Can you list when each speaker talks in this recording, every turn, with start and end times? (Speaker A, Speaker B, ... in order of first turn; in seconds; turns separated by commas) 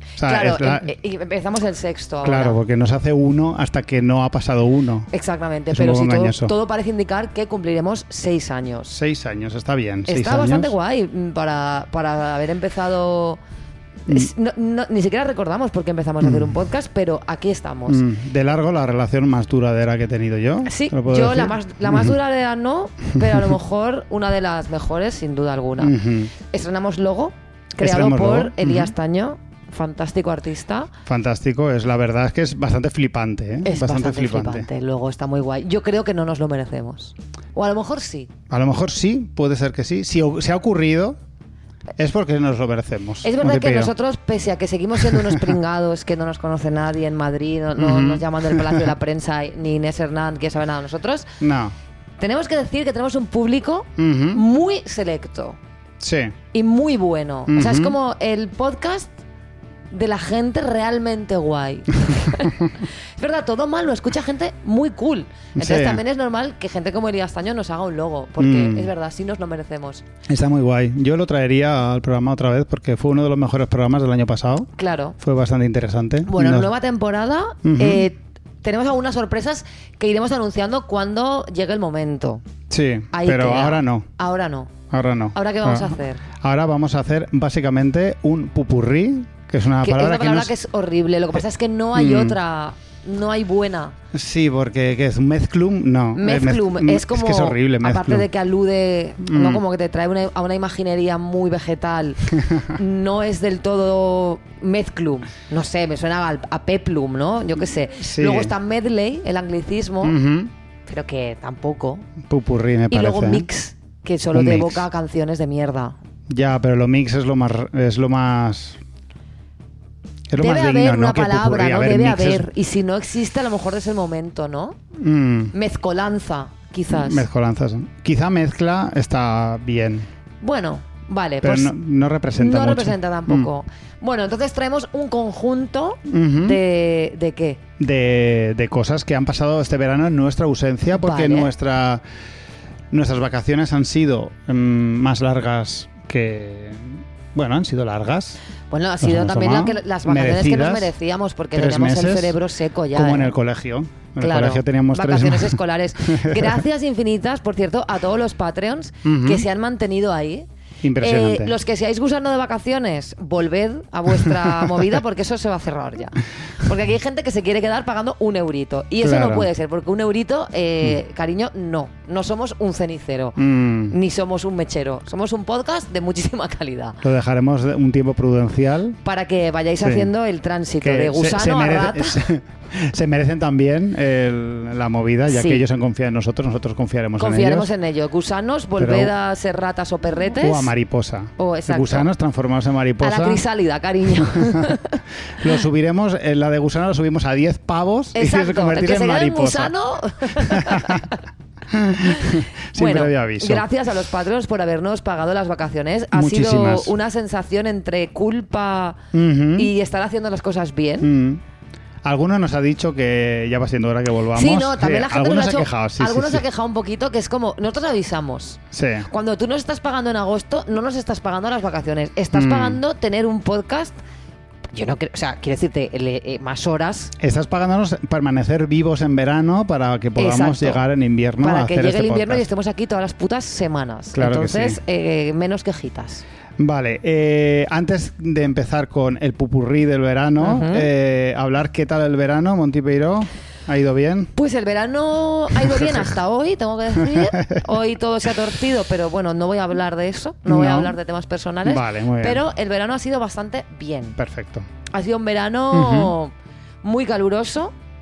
Speaker A: 0.2-0.9, Speaker B: 0.2-2.6, Speaker A: 2.2-5.1, Speaker B: 5.1-8.9, Speaker A: 5.7-6.5, Speaker A: 8.9-10.7, Speaker B: 10.1-13.4, Speaker B: 14.1-18.0, Speaker A: 16.2-16.5, Speaker A: 17.9-22.1, Speaker B: 20.6-26.0, Speaker A: 25.8-26.3, Speaker B: 26.5-30.9, Speaker A: 27.8-28.9, Speaker A: 31.1-34.7, Speaker B: 33.6-38.3, Speaker A: 38.5-41.2, Speaker A: 42.0-43.9, Speaker B: 43.2-51.4, Speaker A: 45.1-45.4, Speaker A: 47.8-48.9, Speaker A: 51.4-51.7, Speaker B: 52.2-55.6, Speaker A: 54.0-54.4, Speaker A: 56.0-56.4, Speaker B: 56.5-59.1, Speaker A: 57.5-58.0, Speaker B: 59.9-70.0, Speaker A: 65.6-66.0, Speaker A: 68.4-68.9, Speaker A: 70.3-76.7, Speaker B: 74.8-75.2, Speaker B: 76.2-82.4, Speaker A: 77.6-78.1, Speaker A: 82.7-84.1, Speaker B: 83.1-84.7, Speaker A: 84.9-90.5, Speaker B: 85.3-86.2, Speaker B: 89.8-94.0, Speaker A: 92.0-92.4, Speaker A: 94.1-98.3, Speaker B: 96.2-110.2, Speaker A: 99.2-99.6, Speaker A: 102.4-102.7, Speaker A: 108.0-108.5, Speaker A: 110.0-110.5, Speaker B: 110.9-112.1, Speaker A: 112.2-113.5, Speaker B: 112.9-116.0, Speaker A: 114.3-114.8, Speaker A: 116.3-118.8, Speaker A: 120.3-122.5, Speaker B: 120.4-124.8, Speaker A: 125.0-125.5, Speaker B: 125.5-127.3, Speaker A: 126.9-130.1, Speaker B: 130.4-131.7, Speaker A: 131.4-133.5, Speaker B: 132.4-137.6, Speaker A: 136.1-136.6, Speaker A: 137.8-142.0, Speaker B: 140.9-141.5, Speaker A: 142.9-148.4, Speaker B: 148.7-153.3, Speaker A: 149.0-150.9, Speaker A: 151.5-152.4, Speaker A: 152.9-156.6, Speaker B: 154.2-160.5, Speaker A: 159.1-159.4, Speaker A: 160.8-161.6, Speaker B: 161.0-177.0, Speaker A: 164.2-164.9, Speaker A: 169.0-169.5, Speaker A: 173.4-174.0, Speaker A: 177.0-179.0, Speaker B: 179.0-182.2, Speaker A: 179.8-180.1, Speaker A: 180.8-187.7, Speaker B: 185.3-185.6, Speaker B: 187.2-190.7, Speaker A: 188.8-189.1, Speaker A: 190.4-193.4, Speaker B: 191.4-192.1, Speaker B: 193.0-195.5, Speaker A: 194.1-194.7, Speaker A: 195.4-201.1, Speaker B: 198.2-201.2, Speaker A: 201.7-203.7, Speaker B: 202.0-209.0, Speaker A: 206.1-206.9, Speaker A: 209.1-209.7, Speaker B: 209.6-211.1, Speaker A: 211.0-211.4, Speaker A: 212.1-216.4, Speaker B: 214.3-224.0, Speaker A: 218.7-219.1, Speaker A: 222.3-222.8, Speaker B: 224.7-227.1, Speaker A: 227.2-232.4, Speaker B: 230.2-230.8, Speaker B: 231.4-236.2, Speaker A: 234.1-234.8, Speaker A: 236.6-244.3, Speaker B: 240.4-240.9, Speaker B: 244.4-254.2, Speaker A: 245.6-246.1, Speaker A: 247.0-247.7, Speaker A: 250.5-251.0, Speaker A: 251.6-252.4, Speaker A: 254.2-254.7, Speaker B: 254.9-257.7, Speaker A: 255.7-256.1